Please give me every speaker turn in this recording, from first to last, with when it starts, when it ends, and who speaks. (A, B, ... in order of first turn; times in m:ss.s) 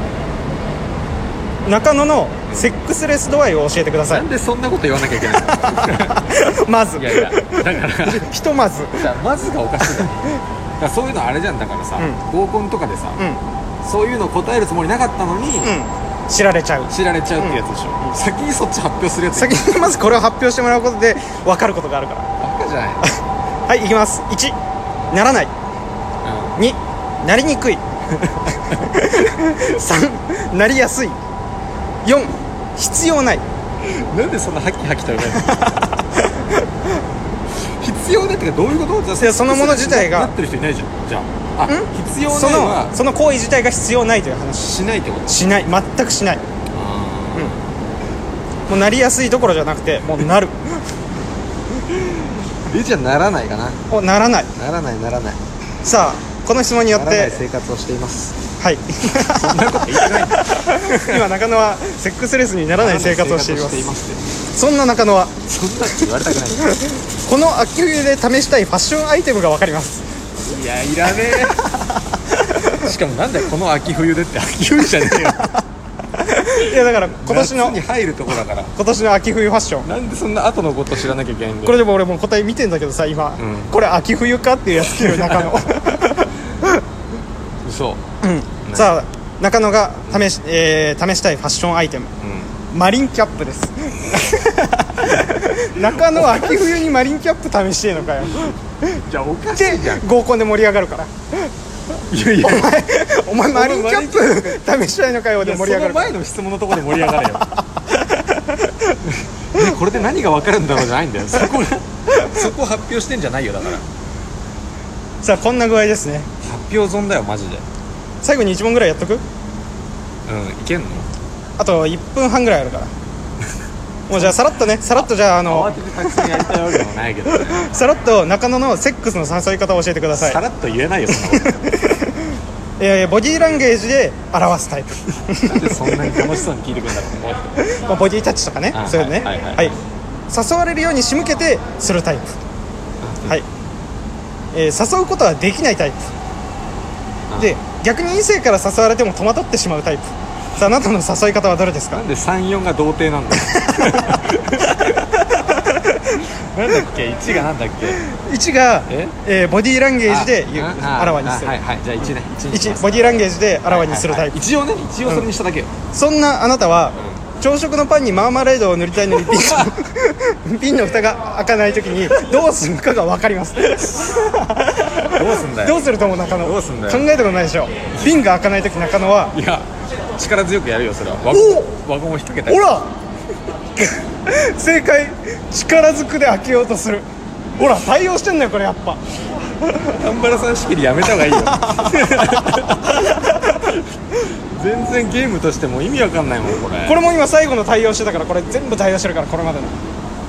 0:01.6-0:04.2 A
0:04.1-0:06.2 B
0:05.7-0:09.0 A
0:07.0-0:08.3 B
0:08.9-0:13.2 B
0:13.8-0:15.8 B
0:15.6-0:17.6 A
0:16.9-0:19.9 B
0:19.3-0:22.3 A
0:22.4-0:23.2 B
0:23.7-0:24.6 A
0:25.1-0:25.5 A
0:26.2-0:26.6 B
0:26.6-0:27.8 A
0:28.8-0:31.2 A
0:32.0-0:33.4 A
0:33.8-0:35.8 B
0:37.6-0:43.0 B
0:39.2-0:40.3 A
0:41.7-0:46.4 A
0:44.6-0:45.4 B
0:46.7-0:47.6 B
0:48.7-0:50.5 A
0:51.9-0:53.8 B
0:53.9-0:54.5 A
0:54.5-0:55.4 B
0:55.8-0:57.4 A
0:56.9-0:58.4 B
0:58.6-1:03.9 A
0:59.2-1:01.2 B
1:02.7-1:04.2 B
1:04.5-1:05.4 A
1:05.4-1:06.8 B
1:06.6-1:10.0 A
1:10.4-1:11.7 B
1:12.6-1:15.6 B
1:16.2-1:17.8 A
1:16.4-1:18.7 B
1:18.8-1:19.9 A
1:19.8-1:21.8 B
1:21.6-1:26.8 A
1:23.4-1:23.7 B
1:24.8-1:25.7 B
1:27.6-1:28.0 B
1:28.2-1:32.1 A
1:28.6-1:28.9 B
1:32.2-1:32.5 B
1:32.7-1:38.6 A
1:35.0-1:36.7 B
1:39.0-1:40.1 B
1:39.5-1:41.1 A
1:42.1-1:42.8 B
1:42.4-1:46.2 A
1:43.5-1:44.6 B
1:45.4-1:47.5 B
1:46.9-1:48.8 A
1:49.1-1:53.8 B
1:55.2-1:56.3 A
1:56.4-1:57.6 B
1:58.2-1:59.2 A
2:00.2-2:01.1 B
2:01.6-2:02.9 A
2:04.1-2:06.4 A
2:04.1-2:07.7 B
2:07.3-2:10.4 A
2:10.2-2:11.5 B
2:11.2-2:16.4 A
2:15.4-2:17.5 B
2:17.6-2:19.7 A
2:18.7-2:19.8 B
2:20.3-2:22.4 A
2:23.0-2:23.4 B
2:24.5-2:26.1 A
2:27.3-2:27.6 B
2:27.4-2:32.0 A
2:31.9-2:35.1 B
2:33.5-2:36.2 A
2:36.4-2:38.0 B
2:38.0-2:41.6 A
2:38.9-2:39.1 B
2:40.0-2:43.1 B
2:42.5-2:44.4 A
2:43.7-2:45.7 B
2:45.9-2:59.3 A
2:47.0-2:47.2 B
2:49.2-2:49.7 B
2:55.1-2:57.0 B
2:57.9-2:58.2 B
2:59.3-3:02.7 B
3:01.3-3:01.7 A
3:02.4-3:02.9 A
3:03.8-3:07.1 A
3:07.6-3:09.0 A
3:10.0-3:17.0 B
3:11.4-3:12.0 A
3:12.9-3:13.6 A
3:16.8-3:19.8 A